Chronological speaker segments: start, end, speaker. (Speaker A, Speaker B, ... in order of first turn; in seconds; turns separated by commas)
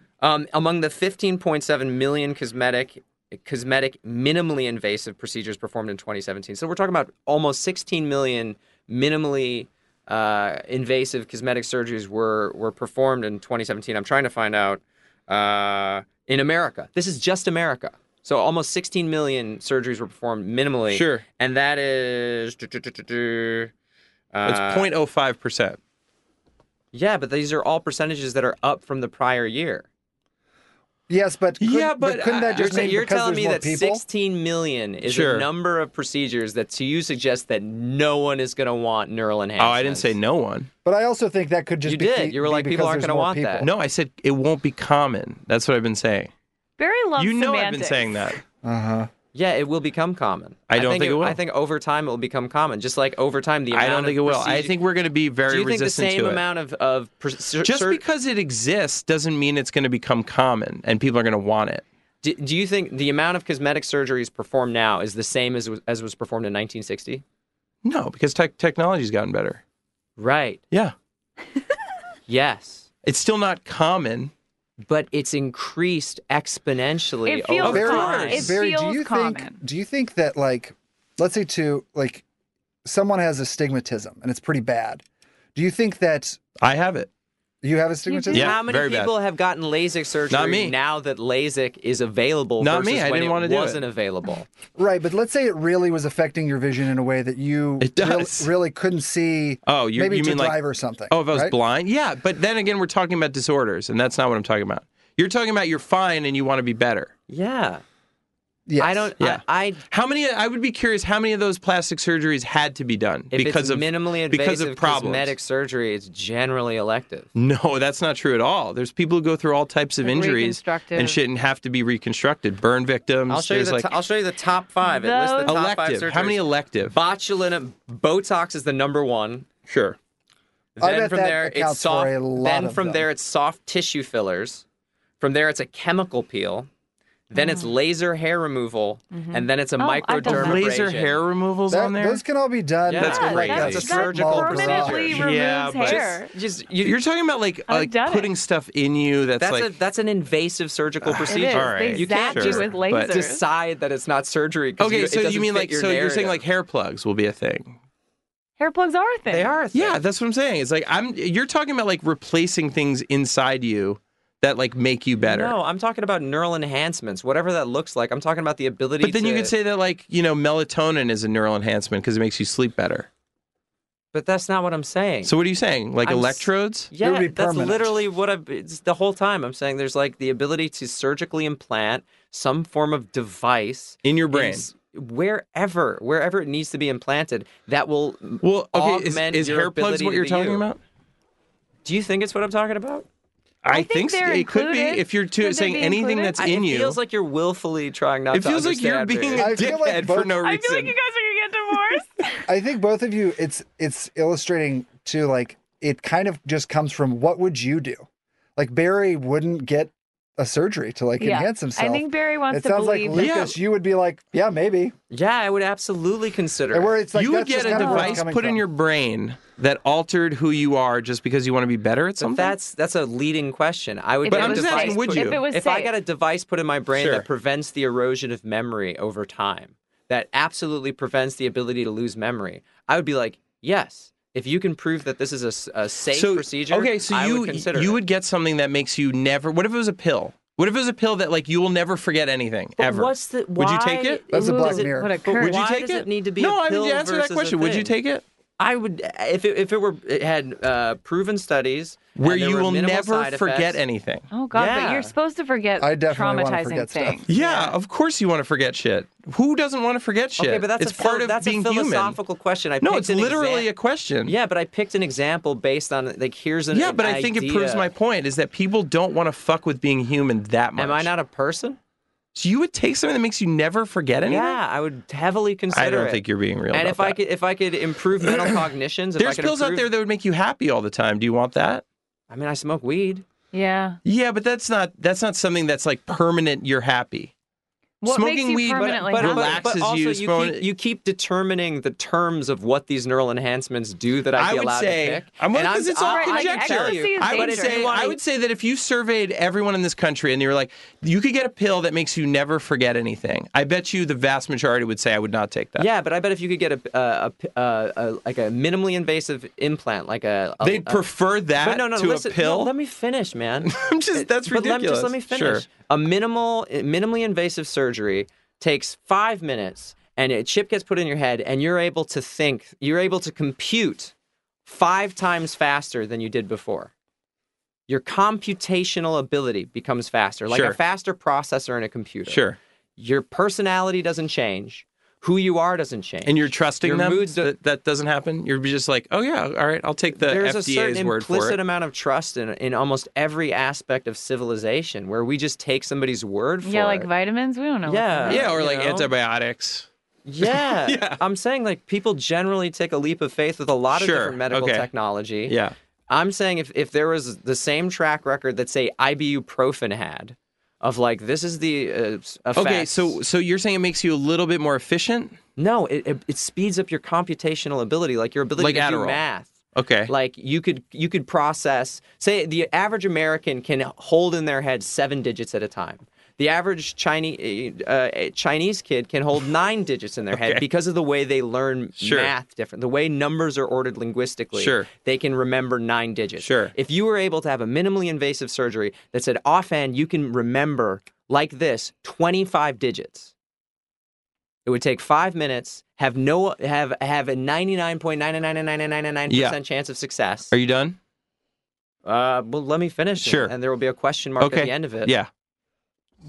Speaker A: 0.2-23.7, Speaker B: 20.9-21.2, Speaker A: 24.3-24.9, Speaker B: 24.4-25.8, Speaker A: 26.9-29.9, Speaker C: 31.1-34.0, Speaker B: 31.6-33.0, Speaker A: 32.5-40.1, Speaker B: 35.0-35.5, Speaker B: 39.6-40.7, Speaker C: 40.9-43.7, Speaker A: 41.9-43.7, Speaker B: 43.6-46.3, Speaker D: 46.8-48.2, Speaker B: 47.2-48.4, Speaker C: 48.6-49.1, Speaker A: 49.3-54.7, Speaker B: 50.7-51.4, Speaker B: 53.7-56.4, Speaker A: 55.5-58.0, Speaker B: 57.6-61.8, Speaker A: 62.2-67.2, Speaker B: 67.8-69.6, Speaker A: 70.2-70.6, Speaker A: 72.3-72.9, Speaker B: 73.0-74.3, Speaker A: 74.8-78.5, Speaker D: 77.3-79.6, Speaker B: 77.6-78.6, Speaker C: 77.6-82.2, Speaker C: 82.8-85.0, Speaker C: 85.5-86.4, Speaker B: 86.6-87.1, Speaker C: 87.6-88.6, Speaker D: 88.1-88.5, Speaker A: 88.3-94.5, Speaker B: 88.3-89.1, Speaker B: 90.3-90.8, Speaker B: 92.6-93.8, Speaker C: 94.8-101.5, Speaker B: 97.8-98.5, Speaker B: 99.7-107.1, Speaker A: 107.3-107.8, Speaker C: 108.7-109.1, Speaker A: 108.8-109.8, Speaker B: 109.2-115.3, Speaker A: 113.3-117.3, Speaker B: 117.3-123.9, Speaker D: 120.0-121.2, Speaker A: 123.3-129.5, Speaker D: 124.8-125.6, Speaker B: 125.4-127.0, Speaker B: 129.7-130.0, Speaker A: 130.8-134.6, Speaker C: 130.8-133.1, Speaker A: 135.2-136.7, Speaker A: 137.3-141.2, Speaker D: 137.4-137.7, Speaker D: 139.1-140.7, Speaker B: 140.2-142.2, Speaker C: 141.7-145.2, Speaker A: 142.8-147.0, Speaker D: 143.0-146.3, Speaker B: 143.0-143.9, Speaker B: 145.1-146.2, Speaker B: 146.8-149.7, Speaker D: 147.7-148.3, Speaker A: 149.4-156.4, Speaker B: 151.1-153.1, Speaker D: 151.3-153.4, Speaker B: 154.8-157.8, Speaker D: 158.6-159.5, Speaker A: 159.3-160.0, Speaker B: 159.7-165.6, Speaker A: 165.2-169.5, Speaker B: 169.0-173.1, Speaker A: 174.1-175.3, Speaker B: 175.2-176.9, Speaker A: 176.0-190.7, Speaker C: 177.0-178.0, Speaker B: 184.0-184.7, Speaker B: 188.4-190.8, Speaker A: 191.8-193.1, Speaker B: 193.6-197.0, Speaker D: 193.7-196.4, Speaker A: 196.4-199.7, Speaker B: 198.3-200.9, Speaker C: 199.3-200.4, Speaker D: 200.2-202.4, Speaker C: 202.4-208.1, Speaker C: 208.6-214.9, Speaker D: 211.2-213.3, Speaker B: 213.1-213.6, Speaker A: 215.1-217.0, Speaker C: 216.7-218.6, Speaker B: 217.1-222.6, Speaker D: 217.7-218.2, Speaker A: 222.2-238.0, Speaker D: 224.2-225.9, Speaker B: 224.3-225.4, Speaker B: 226.9-227.2, Speaker B: 236.1-244.2, Speaker A: 242.8-247.9, Speaker C: 244.3-245.2, Speaker D: 244.3-245.6, Speaker B: 245.3-248.2, Speaker A: 248.6-253.8, Speaker B: 252.2-254.3, Speaker D: 254.3-257.3, Speaker A: 254.5-255.1, Speaker C: 255.8-257.3, Speaker B: 257.3-262.2, Speaker A: 257.3-257.8, Speaker A: 260.4-263.7, Speaker B: 262.8-264.4, Speaker A: 264.2-267.9, Speaker B: 266.7-271.1, Speaker A: 270.8-271.8, Speaker B: 272.4-274.6, Speaker A: 274.2-279.9, Speaker B: 275.7-277.2, Speaker B: 279.2-281.8, Speaker A: 282.3-283.2, Speaker D: 283.5-284.0, Speaker B: 284.1-287.3, Speaker D: 288.0-289.6, Speaker B: 288.0-290.7, Speaker A: 288.7-298.2, Speaker B: 294.4-305.9, Speaker D: 296.1-298.0, Speaker A: 305.8-311.0, Speaker B: 310.6-312.7, Speaker A: 311.6-324.1, Speaker B: 313.6-315.6, Speaker A: 324.6-326.9, Speaker A: 327.9-332.4, Speaker B: 330.5-330.8, Speaker B: 332.3-332.6, Speaker A: 333.0-337.5, Speaker B: 336.2-341.6, Speaker A: 340.1-347.1, Speaker D: 346.6-348.4, Speaker A: 347.9-349.1, Speaker B: 348.3-349.9, Speaker A: 350.3-355.6, Speaker B: 350.4-351.2, Speaker B: 353.9-354.9, Speaker B: 355.4-355.7, Speaker A: 356.1-363.2, Speaker B: 362.6-365.4, Speaker A: 365.6-369.5, Speaker B: 368.6-369.2, Speaker B: 369.7-370.1, Speaker A: 370.1-393.3, Speaker B: 380.3-380.6, Speaker B: 382.0-382.3, Speaker B: 384.6-384.9, Speaker B: 386.4-386.7, Speaker A: 394.6-400.5, Speaker B: 399.3-399.6, Speaker B: 400.5-401.0, Speaker A: 402.1-405.1, Speaker B: 403.2-403.5, Speaker B: 404.4-405.3